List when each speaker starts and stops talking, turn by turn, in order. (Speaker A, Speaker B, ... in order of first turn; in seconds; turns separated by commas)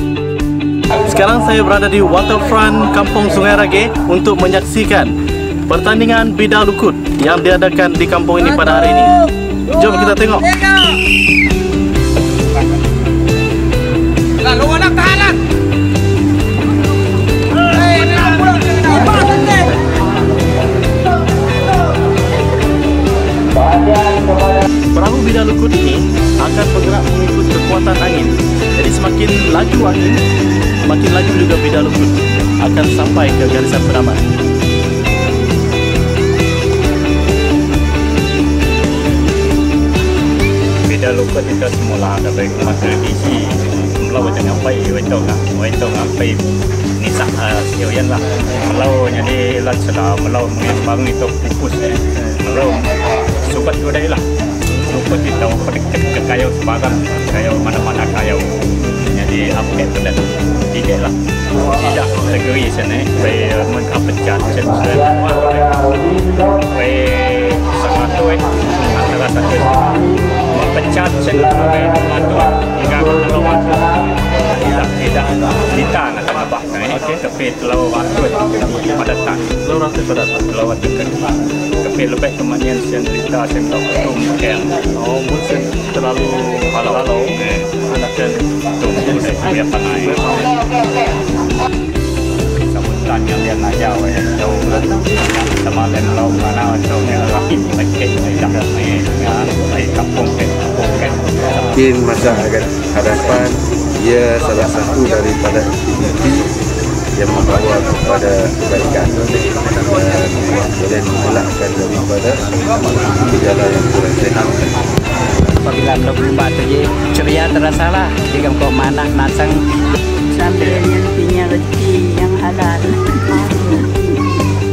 Speaker A: 0.9-5.1, Speaker A: 5.7-10.7, Speaker A: 24.9-30.2, Speaker A: 30.8-34.2, Speaker B: 40.9-46.4, Speaker B: 47.0-52.9, Speaker B: 53.4-54.2, Speaker B: 54.9-79.5, Speaker A: 79.6-80.4, Speaker B: 80.5-84.8, Speaker A: 85.0-88.4, Speaker B: 87.0-87.7, Speaker B: 88.8-90.2, Speaker A: 89.8-90.4, Speaker B: 92.6-101.7, Speaker C: 101.7-106.5, Speaker C: 107.1-114.7, Speaker D: 115.6-119.6, Speaker E: 120.3-124.1